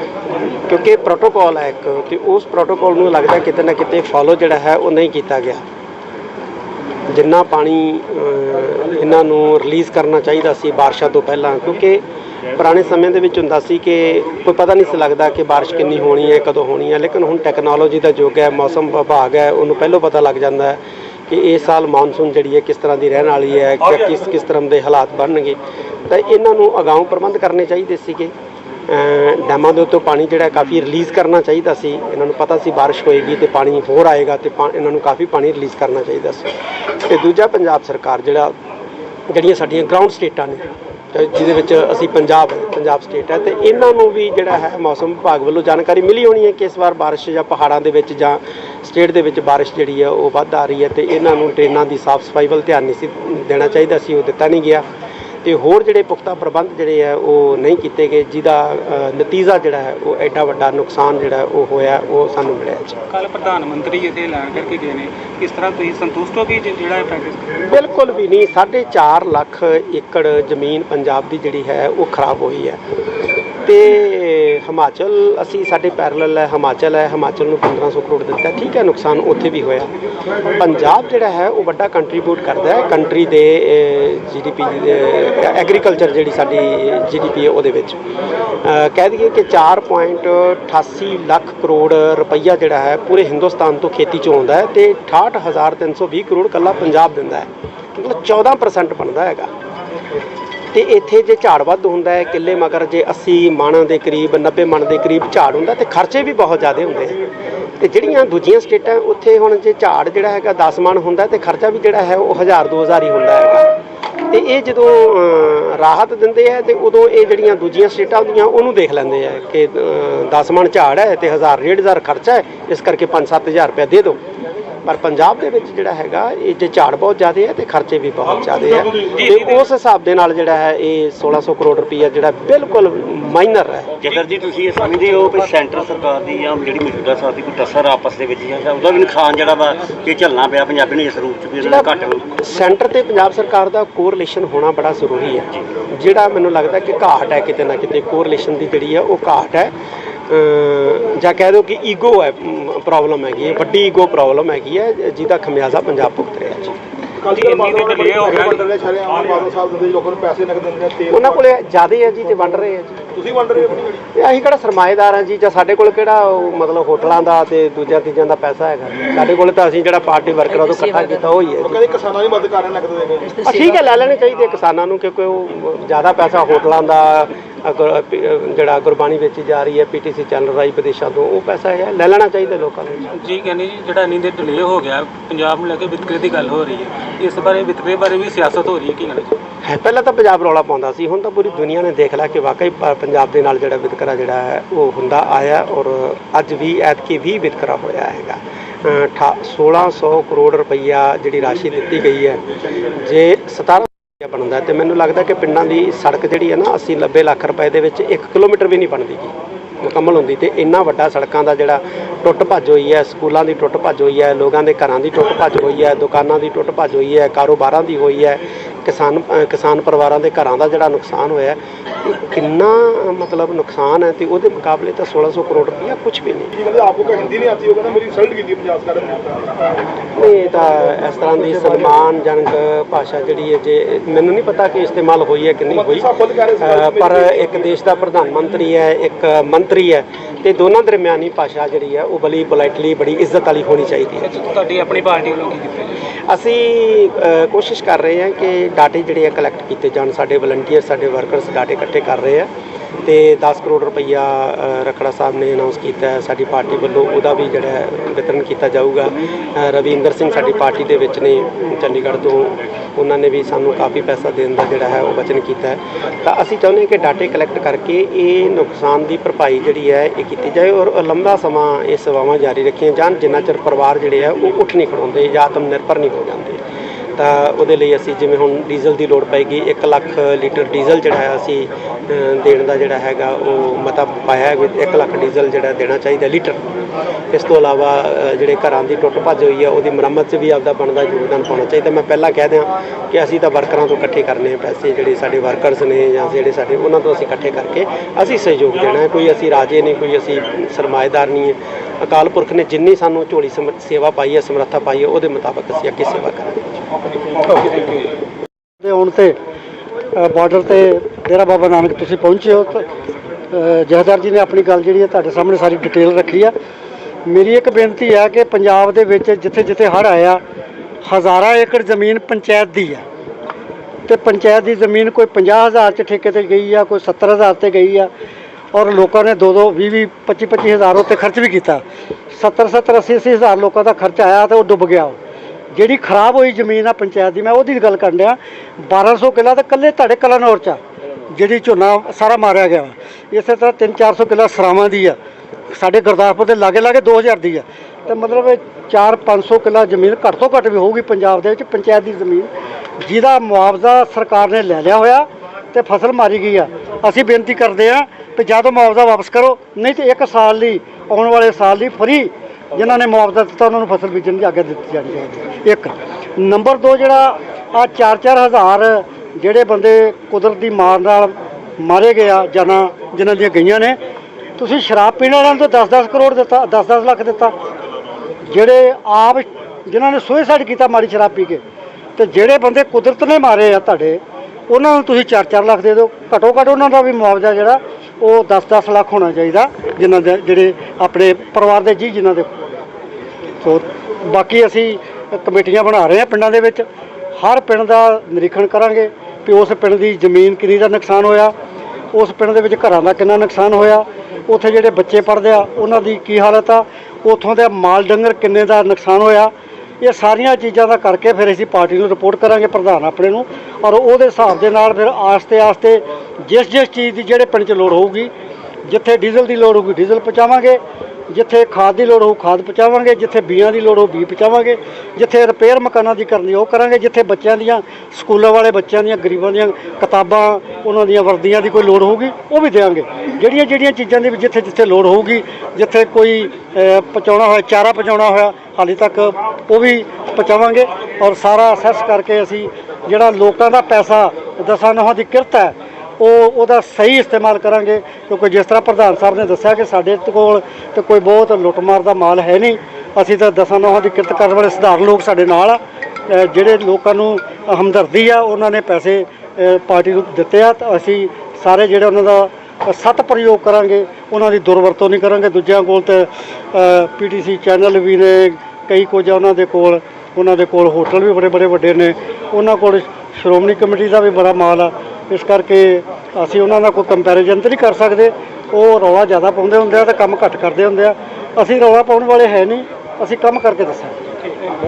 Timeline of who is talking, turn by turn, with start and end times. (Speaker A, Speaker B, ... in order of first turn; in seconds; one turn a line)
Speaker A: 0.7-5.6
Speaker A: 7.1-12.0
Speaker A: 12.6-28.3
Speaker A: 28.9-38.5
Speaker A: 39.3-54.8
Speaker A: 55.4-63.0
Speaker B: 63.1-67.6
Speaker A: 67.7-72.8
Speaker A: 73.6-79.9
Speaker A: 80.5-88.0
Speaker A: 88.6-99.5
Speaker A: 100.7-107.2
Speaker A: 107.8-113.7
Speaker A: 114.3-124.2
Speaker A: 124.8-133.9
Speaker B: 129.0-129.6
Speaker C: 134.0-142.3
Speaker A: 141.6-149.7
Speaker A: 150.3-156.8
Speaker D: 157.2-161.4
Speaker B: 157.3-158.7
Speaker A: 161.1-163.0
Speaker D: 163.1-164.0
Speaker A: 164.1-171.8
Speaker D: 171.6-173.4
Speaker A: 173.4-183.1
Speaker B: 183.2-189.4
Speaker A: 189.6-202.4
Speaker A: 203.0-226.5
Speaker D: 226.6-229.5
Speaker A: 230.1-244.3
Speaker D: 235.7-237.6
Speaker B: 244.2-246.0
Speaker A: 246.3-252.5
Speaker A: 253.0-276.6
Speaker A: 277.2-286.6
Speaker A: 287.3-306.8
Speaker E: 308.8-309.4
Speaker E: 310.1-312.9
Speaker E: 313.5-316.5
Speaker E: 317.2-320.4
Speaker E: 321.0-323.0
Speaker E: 324.1-328.1
Speaker E: 328.7-335.2
Speaker E: 335.7-345.1
Speaker E: 345.7-374.0
Speaker E: 374.6-377.5
Speaker E: 378.5-381.6
Speaker E: 382.2-392.6
Speaker E: 393.6-396.9
Speaker E: 397.4-401.5
Speaker E: 402.1-418.3
Speaker E: 418.9-484.2